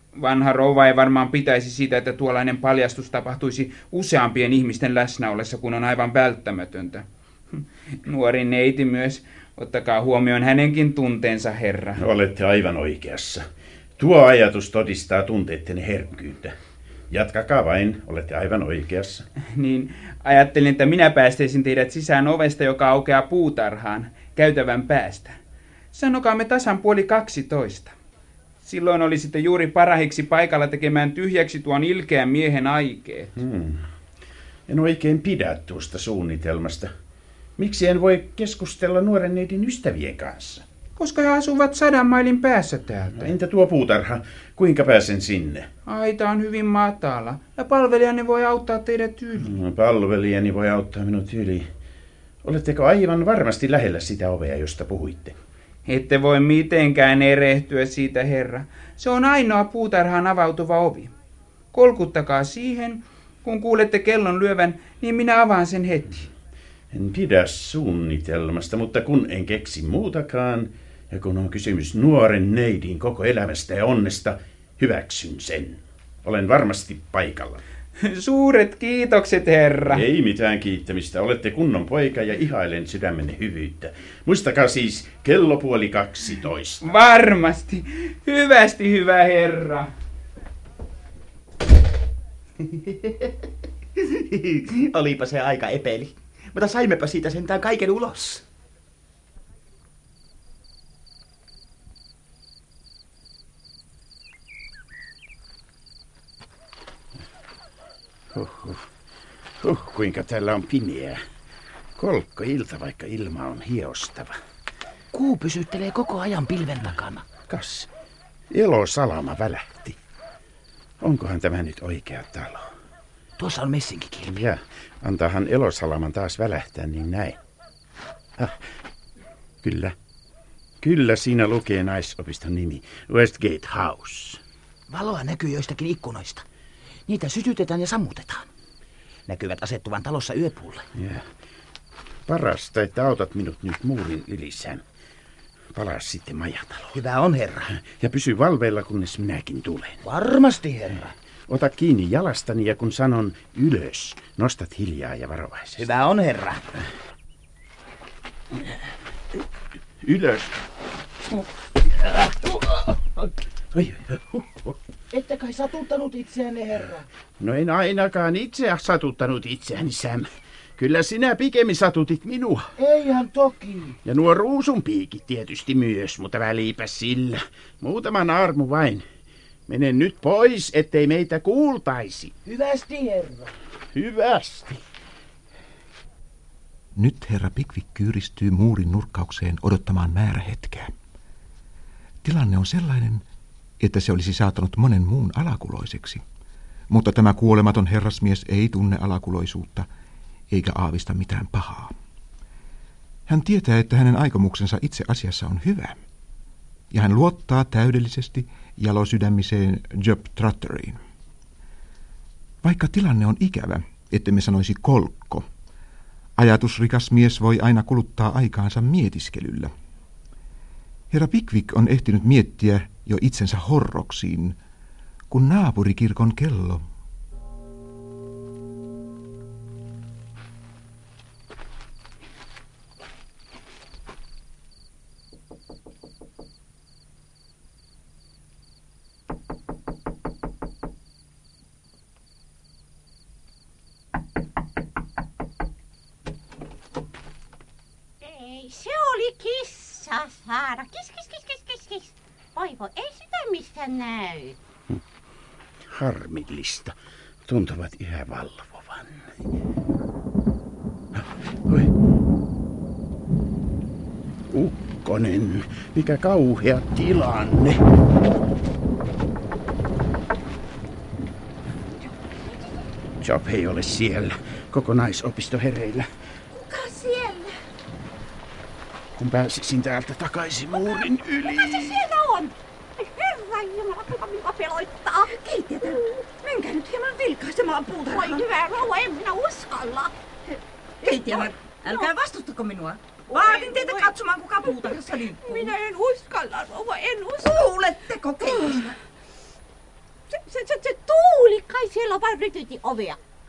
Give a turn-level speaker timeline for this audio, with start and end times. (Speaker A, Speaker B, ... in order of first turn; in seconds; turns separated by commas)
Speaker A: 0.1-12.0, Speaker B: 12.0-13.4, Speaker B: 14.0-16.6, Speaker B: 17.1-19.2, Speaker A: 19.5-25.3, Speaker A: 25.9-27.9, Speaker A: 28.6-33.3, Speaker B: 33.4-33.9, Speaker B: 34.7-36.9, Speaker B: 37.6-40.6, Speaker A: 41.0-43.3, Speaker B: 43.1-45.7, Speaker A: 45.9-49.5, Speaker B: 49.4-51.7, Speaker B: 52.4-55.4, Speaker A: 55.9-61.1, Speaker A: 61.7-66.3, Speaker B: 66.9-77.6, Speaker A: 78.0-80.0, Speaker B: 79.9-86.8, Speaker A: 86.8-89.9, Speaker C: 92.6-93.3, Speaker C: 94.0-98.4, Speaker B: 108.3-108.8, Speaker B: 109.6-111.2, Speaker B: 112.0-114.4, Speaker C: 115.1-117.2, Speaker B: 117.5-117.9, Speaker B: 118.5-120.0, Speaker B: 121.0-122.7, Speaker C: 123.4-124.3, Speaker B: 124.2-127.4, Speaker B: 129.6-129.9, Speaker B: 130.8-134.4, Speaker C: 134.9-136.4, Speaker C: 137.1-138.5, Speaker C: 139.3-140.8, Speaker B: 140.9-141.2, Speaker B: 142.3-144.8, Speaker B: 145.7-146.9, Speaker C: 146.9-147.7, Speaker B: 147.8-150.0, Speaker C: 150.0-151.1, Speaker B: 151.5-155.8, Speaker C: 155.8-156.6, Speaker B: 160.0-160.6, Speaker C: 162.0-163.3, Speaker B: 163.7-164.7, Speaker C: 165.1-167.1, Speaker B: 167.4-172.7, Speaker C: 172.8-174.0, Speaker B: 174.0-179.0, Speaker B: 179.7-182.3, Speaker C: 182.4-183.5, Speaker B: 183.9-184.8, Speaker D: 186.9-190.9, Speaker D: 192.2-193.2, Speaker D: 193.8-196.2, Speaker D: 196.9-199.9, Speaker D: 200.5-201.9, Speaker D: 203.3-206.0, Speaker D: 206.9-211.0, Speaker D: 212.6-215.5, Speaker D: 216.4-219.7, Speaker D: 221.1-224.6, Speaker D: 225.3-226.8, Speaker E: 248.2-254.6, Speaker B: 255.9-256.9, Speaker B: 257.5-259.3, Speaker B: 261.1-261.9, Speaker B: 264.5-267.8, Speaker B: 273.2-276.1, Speaker B: 279.1-282.0, Speaker E: 281.4-286.2, Speaker F: 285.8-288.4, Speaker E: 288.1-290.1, Speaker E: 291.0-292.1, Speaker F: 291.0-295.8, Speaker E: 293.3-297.8, Speaker F: 297.4-298.9, Speaker E: 298.4-298.9, Speaker E: 300.3-303.2